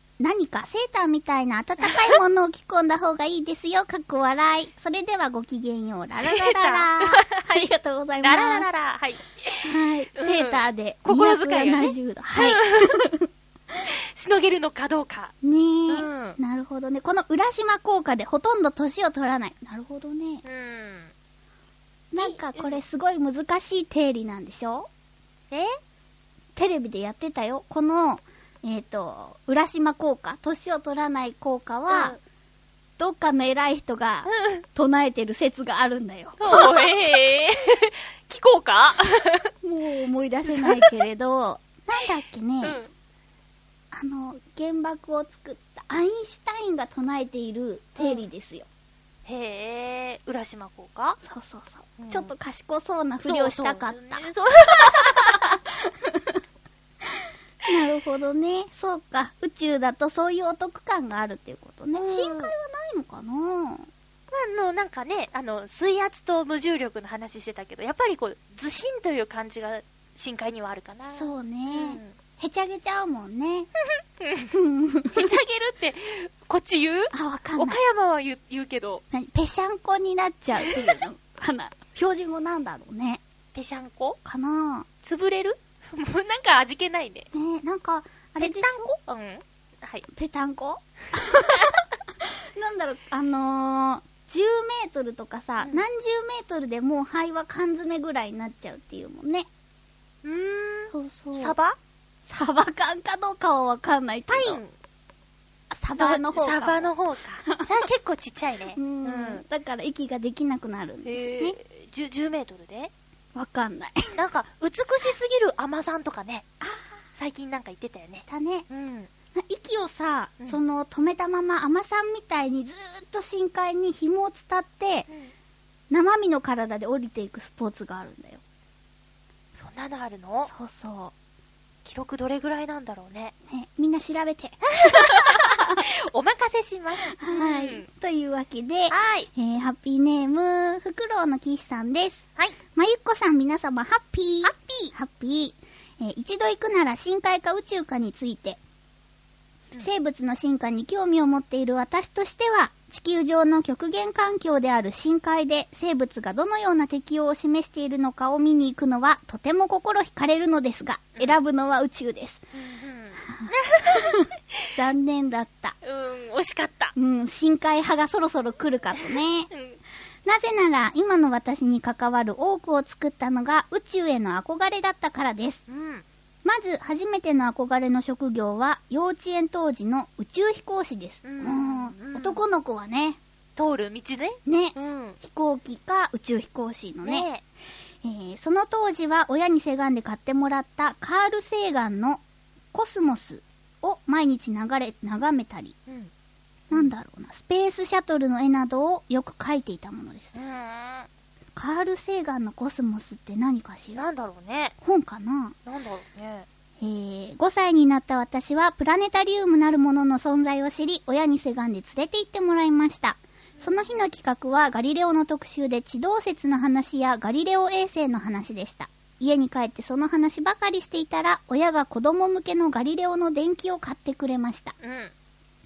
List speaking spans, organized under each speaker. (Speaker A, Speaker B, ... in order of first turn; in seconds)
Speaker A: 0.2-8.7, 9.6-13.3, 15.4-20.4, 22.1-24.9, 26.6-32.2, 33.0-36.9, 39.6-42.8, 43.9-48.7, 51.2-56.4, 57.0-63.9, 71.1-73.7, 74.5-75.3, 77.1-77.8, 79.1-83.2, 84.2-84.9, 87.3-88.9, 90.1-99.5, 100.9-101.6, 102.3-104.6, 105.7-106.9, 108.8-111.6, 113.3-114.2, 116.6-116.9, 118.3-118.7, 119.3-125.1, 125.9-128.4, 130.5-131.1, 133.5-135.8, 137.1-148.6, 149.8-162.4, 163.4-165.8, 167.0-169.5, 170.2-175.6, 176.4-183.2, 184.5-187.3, 188.0-192.2, 192.7-195.8, 196.7-200.3, 201.6-204.1, 204.8-205.6, 206.8-224.8
Speaker B: 1.8-2.1, 6.2-7.7, 8.2-13.1, 13.8-15.3, 15.9-16.4, 20.4-21.1, 22.2-22.8, 25.5-25.8, 31.9-32.2, 34.3-34.6, 36.4-39.5, 40.5-40.9, 42.6-42.9, 49.3-51.2, 52.0-52.3, 53.2-55.6, 62.0-62.5, 64.3-72.2, 74.2-74.5, 75.1-79.0, 83.5-84.2, 85.0-87.3, 88.4-90.1, 91.5-91.8, 100.2-101.8, 104.3-104.7, 106.0-109.4, 111.0-112.9, 114.2-116.5, 117.2-119.1, 129.6-130.5, 131.8-133.3, 134.7-137.9, 138.9-139.3, 144.4-144.9, 162.5-164.3, 165.8-166.9, 169.5-169.8, 175.7-176.1, 181.2-182.4, 183.6-185.2, 187.0-187.4, 200.3-201.1, 203.9-204.8, 205.7-206.5, 213.6-214.0, 224.8-225.1